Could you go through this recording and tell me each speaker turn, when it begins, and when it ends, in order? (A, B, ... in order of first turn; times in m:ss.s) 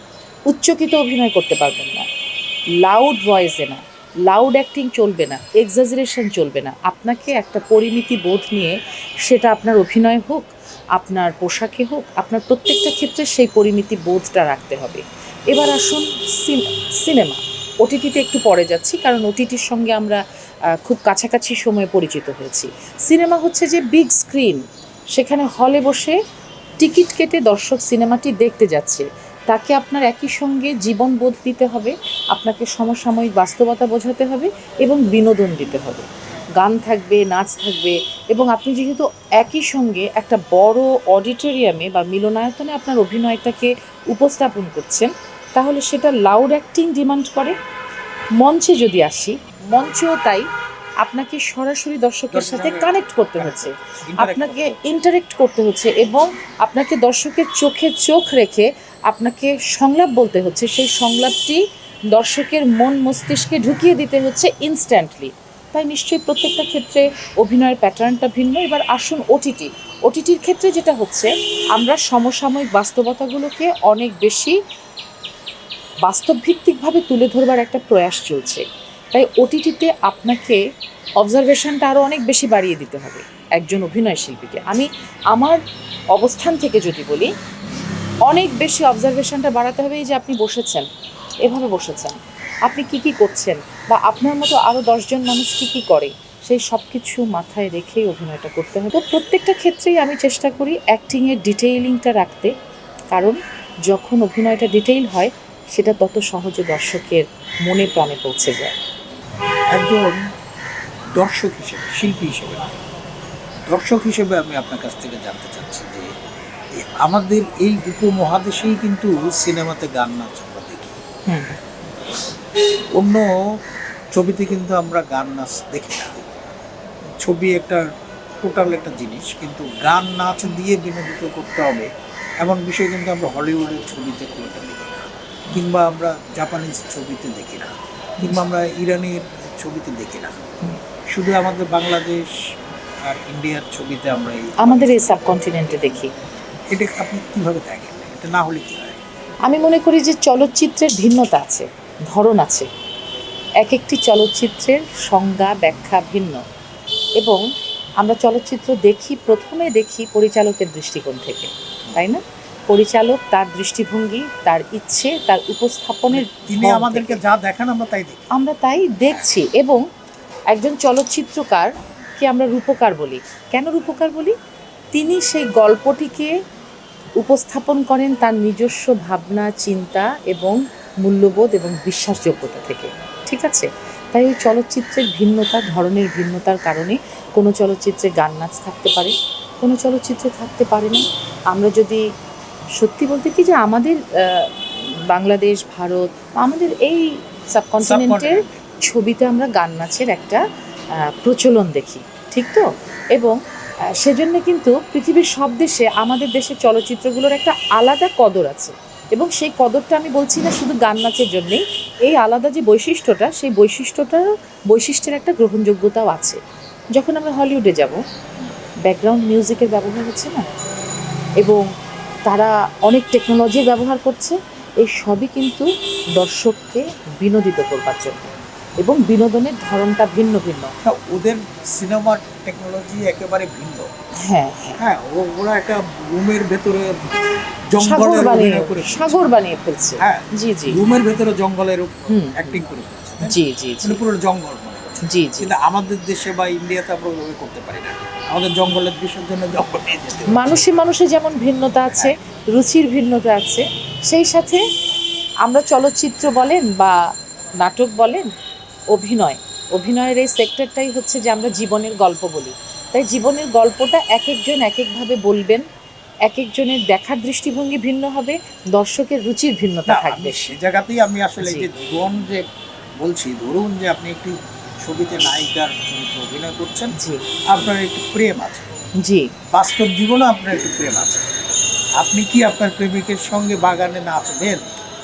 0:00.5-0:02.0 A
0:02.8-0:20.2 A
0:20.8-0:24.6 A
0:25.1-0:26.2 A
0:26.8-0:47.6 A
0:48.4-0:50.4 A
0:51.0-1:14.6 A
0:52.3-0:54.9 B
1:16.0-1:20.6 A
1:21.2-1:25.6 A
1:26.1-1:27.3 A
1:28.3-1:30.8 A
1:31.4-1:42.5 A
1:43.1-1:48.7 A
1:49.7-1:50.2 B
1:51.1-1:52.8 B
1:53.7-1:56.1 B
1:56.8-2:01.0 B
2:01.3-2:01.6 A
2:03.0-2:03.3 B
2:04.1-2:06.3 B
2:07.2-2:07.8 B
2:08.4-2:11.9 B
2:12.4-2:20.4 B
2:21.1-2:22.3 B
2:23.1-2:25.3 B
2:24.6-2:26.1 A
2:26.7-2:29.0 B
2:29.5-2:32.7 A
2:33.6-2:36.4 A
2:37.2-2:37.4 A
2:38.0-2:47.2 A
2:46.1-2:48.3 B
2:48.3-2:49.8 A
2:50.5-2:54.3 A
2:54.9-2:56.3 A
2:57.2-3:12.0 A
3:12.8-3:14.5 A
3:15.1-3:20.4 A
3:17.8-3:18.6 B
3:21.0-3:23.4 A
3:24.0-3:36.4 A
3:36.9-3:38.0 A
3:38.8-3:40.4 A
3:42.2-3:50.7 A
3:50.8-3:53.9 B
3:54.2-3:54.8 A
3:54.8-3:57.1 B
3:57.7-3:59.3 B
3:57.8-4:00.8 A
4:00.0-4:10.7 B
4:02.1-4:02.6 A
4:03.2-4:04.0 A
4:05.0-4:05.5 A
4:10.3-4:14.6 A
4:15.4-4:17.0 A
4:17.6-4:18.3 A
4:18.9-4:25.6 A
4:26.3-4:30.5 A
4:29.9-4:32.4 B
4:31.4-4:31.7 A
4:33.0-4:36.9 B
4:37.0-4:37.2 A
4:37.5-4:38.7 B
4:39.0-4:39.3 A
4:39.5-4:41.3 B
4:42.0-4:44.6 B